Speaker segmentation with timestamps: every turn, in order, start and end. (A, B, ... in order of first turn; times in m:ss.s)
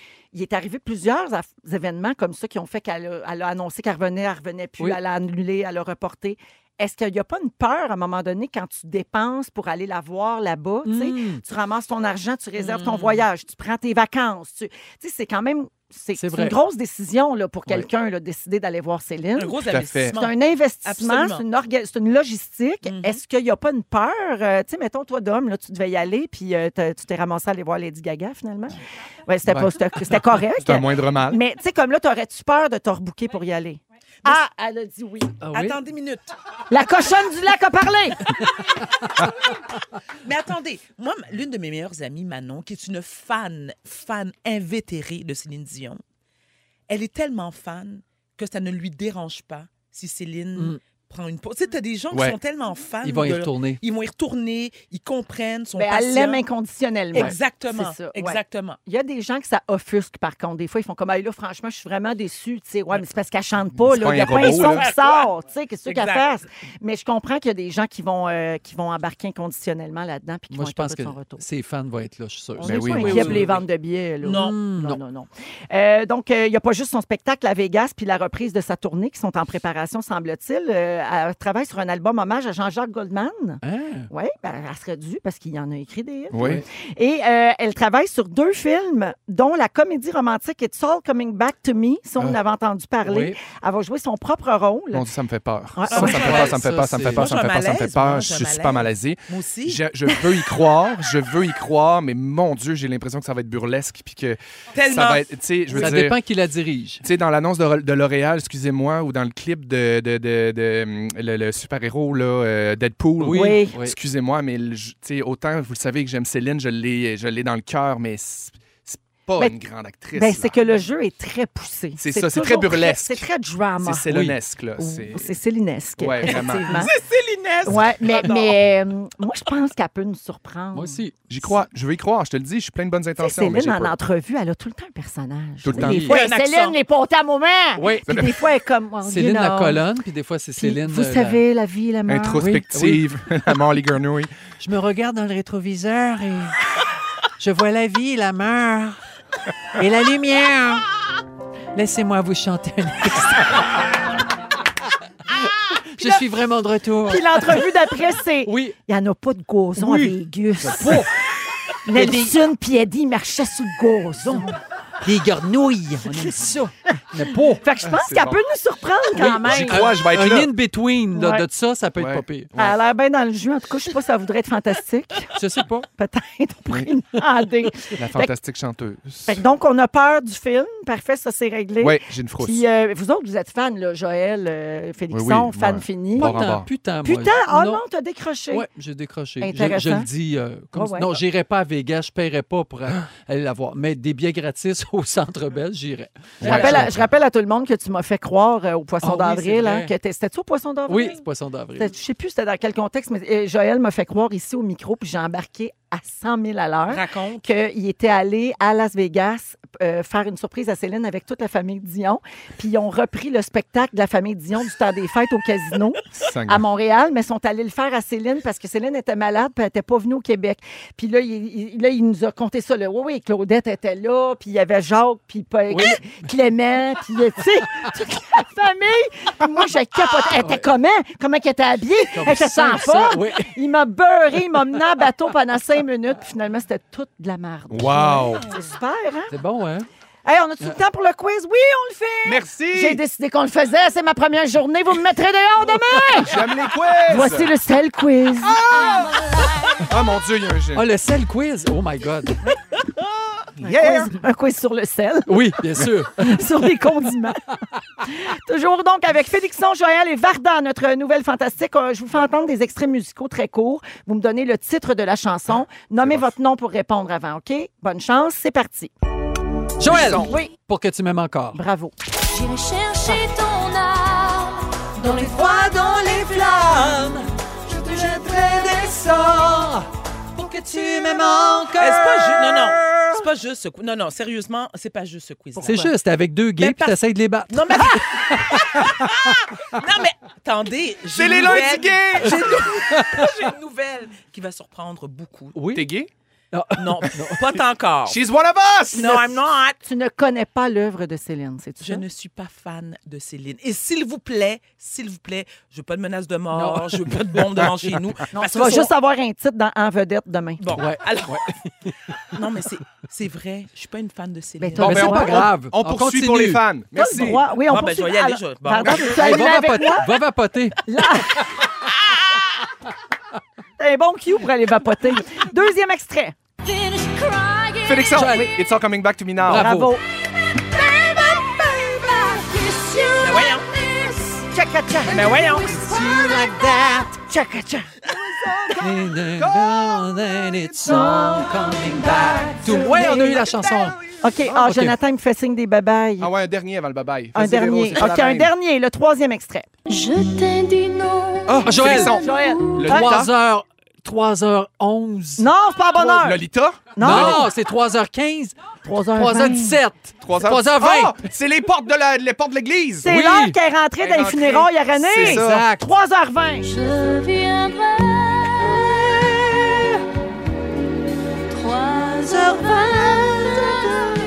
0:00.3-0:19.6 A
0:10.8-0:11.4 B
0:12.6-0:13.2 C
0:16.2-0:16.6 B
0:19.4-0:21.4 C
0:19.7-0:20.1 D
0:20.1-0:35.4 A
0:22.8-0:23.2 C
0:30.6-0:31.4 D
0:35.4-0:35.8 B
0:35.5-0:36.3 C
0:36.7-0:38.4 A
0:40.2-0:46.0 C
0:46.9-0:56.4 C
0:52.1-0:52.4 D
0:53.0-0:53.8 B
0:55.8-1:11.4 A
0:57.1-0:58.8 C
1:03.8-1:04.8 D
1:04.1-1:05.3 C
1:05.8-1:06.4 C
1:10.5-1:13.6 B
1:12.6-1:35.1 A
1:12.6-1:13.4 D
1:14.2-1:14.6 C
1:14.3-1:15.0 B
1:23.6-1:24.1 B
1:26.3-1:26.6 D
1:26.3-1:26.6 B
1:33.0-1:33.4 B
1:34.9-1:46.2 D
1:35.8-1:36.4 A
1:35.9-1:40.3 C
1:36.0-1:37.3 B
1:44.7-1:45.3 C
1:45.7-1:47.0 B
1:47.0-2:00.5 D
1:53.2-1:54.0 B
1:53.3-1:53.8 A
2:00.1-2:04.2 A
2:02.0-2:03.2 D
2:03.8-2:05.3 D
2:04.8-2:06.9 A
2:06.0-2:06.9 D
2:06.3-2:08.6 C
2:07.6-2:11.0 A
2:10.7-2:11.2 B
2:11.3-2:14.0 D
2:13.2-2:19.8 A
2:15.6-2:16.1 D
2:15.7-2:16.2 B
2:16.0-2:16.8 C
2:17.8-2:18.3 B
2:18.1-2:18.3 D
2:19.0-2:21.4 B
2:20.6-2:22.4 A
2:22.1-2:24.3 D
2:22.4-2:23.1 B
2:24.6-2:26.6 B
2:27.4-2:29.0 B
2:29.8-2:30.8 B
2:31.7-2:33.9 B
2:35.4-2:37.7 B
2:36.0-2:36.2 A
2:37.0-2:41.0 A
2:38.4-2:38.8 B
2:39.8-2:41.1 B
2:41.8-2:44.6 A
2:41.9-2:42.4 B
2:45.0-2:47.6 B
2:47.5-2:49.9 A
2:47.8-2:48.4 D
2:49.1-2:50.5 D
2:49.3-2:52.5 B
2:51.1-2:51.4 A
2:52.0-2:52.8 D
2:52.6-2:55.3 A
2:55.4-2:55.9 B
2:56.0-2:58.3 A
2:58.0-2:59.4 D
2:59.3-3:06.4 A
3:01.8-3:02.6 D
3:05.1-3:06.7 D
3:06.1-3:07.8 B
3:07.0-3:08.7 A
3:08.5-3:17.0 B
3:09.4-3:10.1 A
3:10.7-3:11.2 A
3:16.4-3:16.9 D
3:16.4-3:21.2 A
3:19.0-3:19.9 B
3:20.9-3:21.9 B
3:21.8-3:59.3 A
3:26.9-3:27.4 C
3:36.2-3:36.6 D
3:45.7-3:46.2 B
3:50.4-3:50.7 B
3:52.1-3:53.6 B
3:57.7-3:58.5 D
3:59.3-3:59.9 B
4:00.2-4:06.4 A
4:02.2-4:03.0 D
4:06.2-4:07.5 D
4:07.0-4:08.6 A
4:08.5-4:09.2 D
4:09.8-4:10.9 D
4:10.7-4:12.4 B
4:13.6-4:14.1 D
4:13.6-4:17.5 A
4:15.3-4:16.8 B
4:18.0-4:28.9 A
4:26.0-4:26.3 D
4:29.8-4:31.6 B
4:29.8-4:30.3 D
4:30.0-4:30.5 A
4:31.5-4:31.9 A
4:32.3-4:34.7 E
4:35.0-4:43.1 B
4:41.8-4:45.9 C
4:45.6-4:49.4 B
4:46.6-4:55.6 C
4:51.1-4:52.6 D
4:52.5-4:53.3 B
4:55.5-4:55.9 B
4:55.7-4:56.1 D
4:56.5-4:57.5 B
4:56.8-4:58.2 C
4:58.0-4:59.2 D
4:58.9-4:59.8 C
4:59.8-5:02.0 A
5:01.8-5:08.9 C
5:06.5-5:07.2 B
5:08.3-5:10.6 A
5:10.6-5:11.5 C
5:10.7-5:12.4 B
5:12.3-5:15.1 C
5:14.6-5:15.5 A
5:14.8-5:16.6 B
5:14.8-5:17.5 D
5:16.9-5:20.2 A
5:17.7-5:19.2 C
5:19.0-5:21.6 B
5:20.8-5:21.5 A
5:23.8-5:26.4 A
5:26.6-5:28.0 E
5:27.8-5:29.7 D
5:28.1-5:28.5 B
5:28.2-5:28.5 A
5:29.4-5:30.0 B
5:29.5-5:30.0 A
5:30.8-5:33.5 A
5:33.2-5:33.7 C
5:34.2-5:35.4 A
5:35.1-5:35.8 C
5:35.4-5:37.0 B
5:36.3-5:38.0 A
5:38.4-5:38.7 D
5:38.8-5:45.0 B
5:39.3-5:40.0 D
5:42.3-5:43.4 A
5:44.2-5:46.3 A
5:46.2-5:48.5 D
5:47.3-5:49.7 A
5:49.9-5:51.6 E
5:51.4-5:53.3 D
5:51.6-5:52.2 B
5:52.1-5:53.2 A
5:52.8-5:55.4 B
5:55.4-5:56.4 A
5:55.9-5:57.5 D
5:56.9-5:57.4 A
5:57.0-5:58.6 B
5:58.8-5:59.8 A
5:59.1-6:01.2 B
6:00.2-6:03.1 D
6:03.0-6:06.8 A
6:03.0-6:03.6 B
6:04.0-6:05.7 D
6:05.2-6:05.8 B
6:06.8-6:08.7 E
6:11.5-6:13.7 E